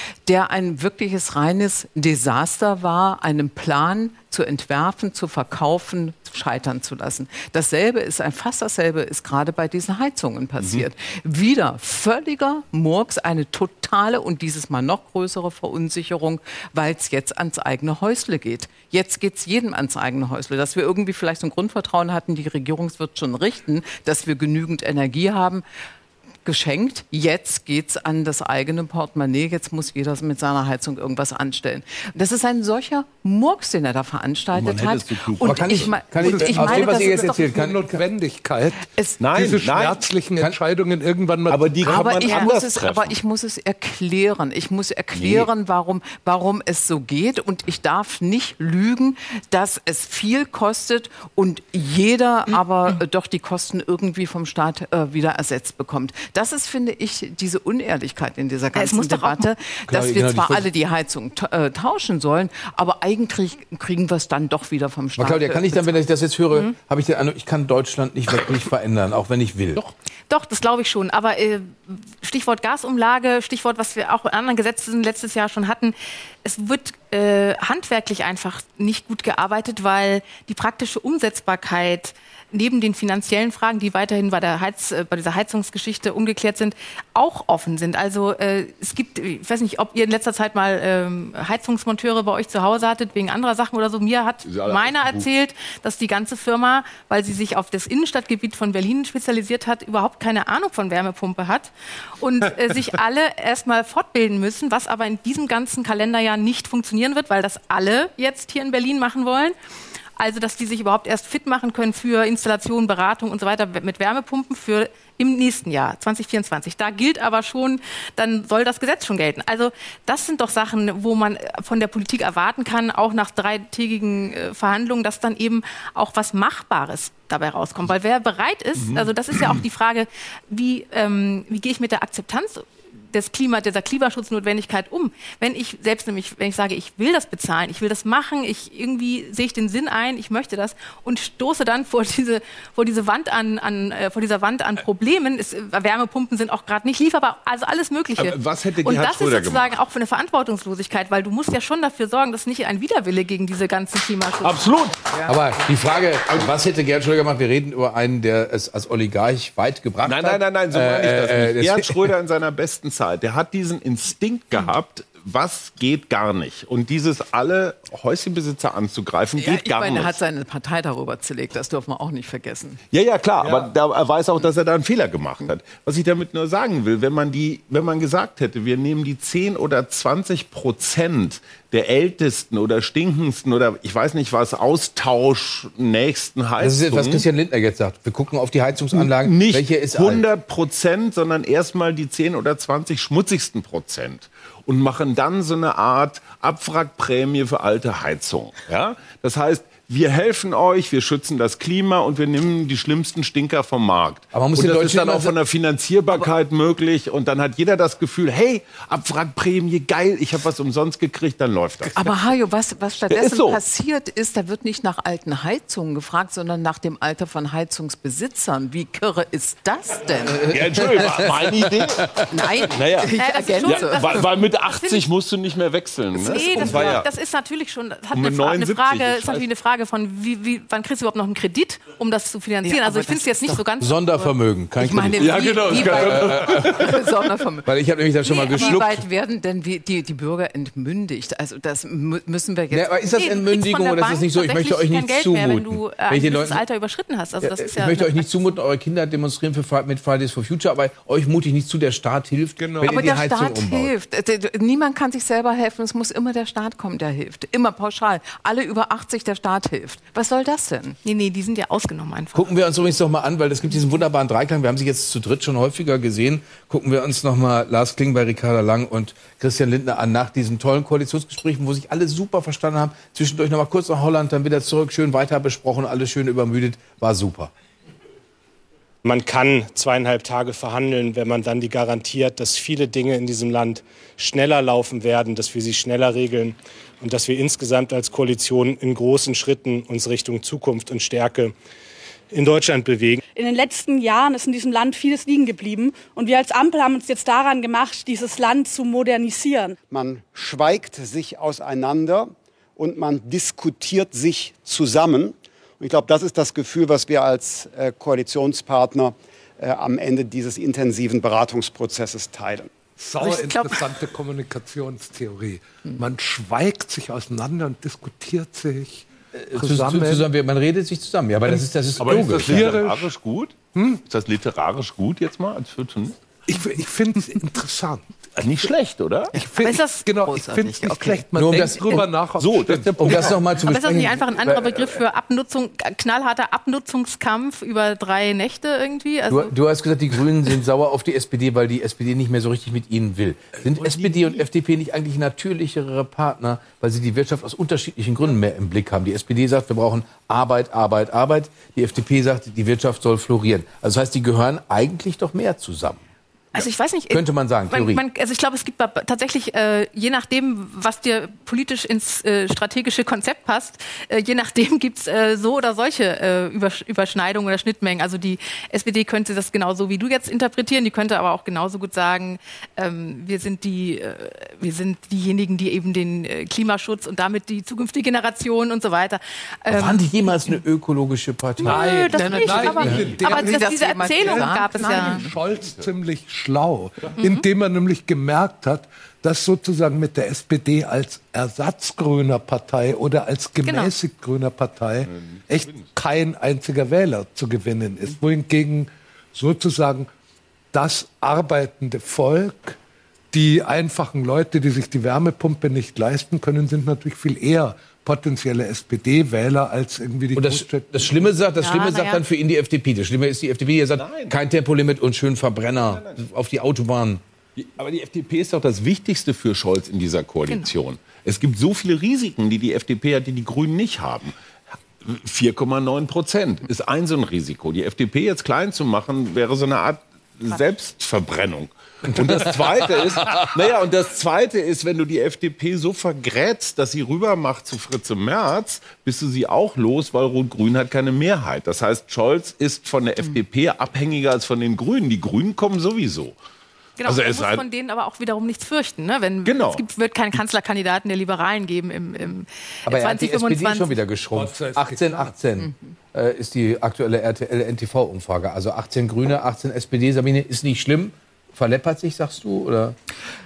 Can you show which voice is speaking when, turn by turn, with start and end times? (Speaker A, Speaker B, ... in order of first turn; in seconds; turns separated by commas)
Speaker A: 0.2-25.6, Speaker A: 26.4-37.4, Speaker B: 34.5-36.0, Speaker C: 35.4-38.0, Speaker D: 36.2-41.8, Speaker B: 39.2-40.0, Speaker B: 41.5-43.2, Speaker A: 41.8-66.0, Speaker E: 42.2-42.5, Speaker B: 45.1-45.5, Speaker E: 58.7-59.5, Speaker C: 59.9-60.7, Speaker C: 65.2-69.8, Speaker E: 70.3-109.5, Speaker B: 94.5-95.3, Speaker E: 110.2-154.7, Speaker B: 128.8-129.6, Speaker B: 148.2-149.8, Speaker B: 154.4-154.9, Speaker C: 155.2-162.0, Speaker B: 160.0-170.2, Speaker A: 169.4-172.8, Speaker B: 172.9-187.3, Speaker C: 186.6-190.2, Speaker B: 188.9-212.2, Speaker C: 204.3-205.3, Speaker A: 211.9-220.5, Speaker B: 213.1-213.6, Speaker C: 220.2-222.2, Speaker B: 220.4-227.1, Speaker A: 222.3-224.2, Speaker E: 223.2-225.0, Speaker E: 226.1-236.2, Speaker A: 226.3-226.9, Speaker B: 228.1-229.5, Speaker A: 232.6-233.6, Speaker C: 233.8-237.0, Speaker B: 235.2-236.8, Speaker A: 235.2-237.7, Speaker C: 237.6-239.0, Speaker E: 238.3-238.8, Speaker A: 238.3-242.9, Speaker C: 242.7-246.6, Speaker E: 243.1-248.2, Speaker C: 247.4-253.9, Speaker D: 252.6-253.0, Speaker A: 252.8-261.0, Speaker E: 261.0-262.5, Speaker C: 262.3-277.5, Speaker F: 279.0-291.5, Speaker F: 292.3-293.2, Speaker G: 293.3-299.8, Speaker H: 299.9-312.7, Speaker D: 313.0-320.3, Speaker E: 313.2-314.0, Speaker C: 319.4-322.8, Speaker D: 321.5-323.1, Speaker B: 322.0-323.6, Speaker D: 323.7-324.0, Speaker B: 324.1-326.2, Speaker D: 326.5-328.1, Speaker B: 328.4-329.3, Speaker D: 329.3-333.4, Speaker E: 329.5-331.2, Speaker C: 331.3-332.1, Speaker B: 332.4-333.4, Speaker C: 333.0-335.0, Speaker E: 333.6-339.5, Speaker C: 339.3-356.0, Speaker D: 343.6-344.4, Speaker E: 356.5-380.6, Speaker C: 357.1-358.0, Speaker C: 379.7-381.9, Speaker E: 381.6-385.2, Speaker D: 381.6-400.1, Speaker A: 382.1-385.3, Speaker E: 387.2-387.5, Speaker E: 393.6-393.9, Speaker B: 395.1-395.9, Speaker D: 400.7-402.8, Speaker D: 403.3-411.3, Speaker C: 410.3-417.2, Speaker E: 411.6-412.2, Speaker B: 414.0-414.4, Speaker B: 415.8-416.2, Speaker B: 417.6-424.3, Speaker E: 420.5-420.7, Speaker B: 425.0-446.4, Speaker E: 447.0-454.0, Speaker B: 447.0-447.6, Speaker B: 449.4-449.8, Speaker C: 452.8-462.9, Speaker D: 454.3-455.3, Speaker A: 455.6-455.9